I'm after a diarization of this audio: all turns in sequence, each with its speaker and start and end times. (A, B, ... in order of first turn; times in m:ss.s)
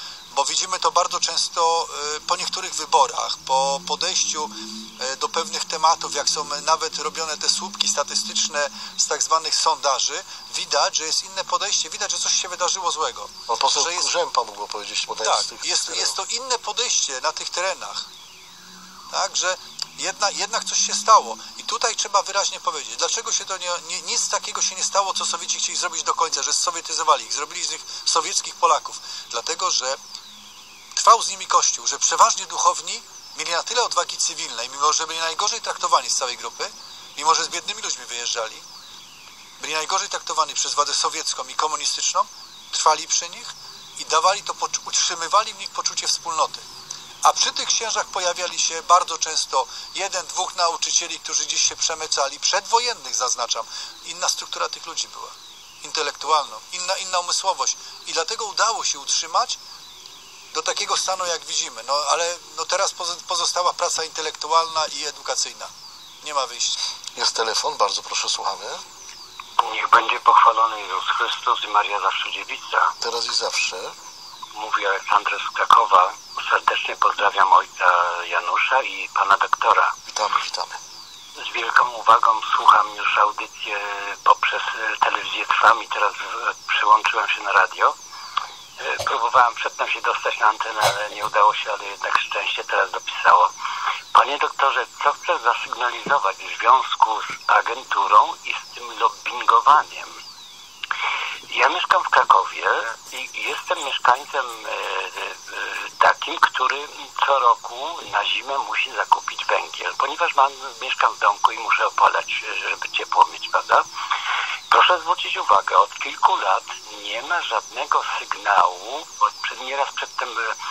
0:00.3-0:14.1 A
0:13.5-0:16.2 B
0:15.2-0:18.1 A
0:19.1-0:30.0 A
0:30.9-0:38.6 A
0:39.6-0:46.6 A
0:47.2-0:59.6 A
1:00.5-1:05.7 A
1:06.2-1:06.8 A
1:07.2-1:08.8 B
1:09.6-1:12.9 C
1:13.0-1:13.9 B
1:14.6-1:19.9 C
1:20.1-1:20.8 B
1:21.4-1:27.9 C
1:28.8-1:33.5 C
1:34.2-1:40.1 C
1:41.5-1:45.3 C
1:46.0-1:53.8 C
1:54.7-2:00.5 C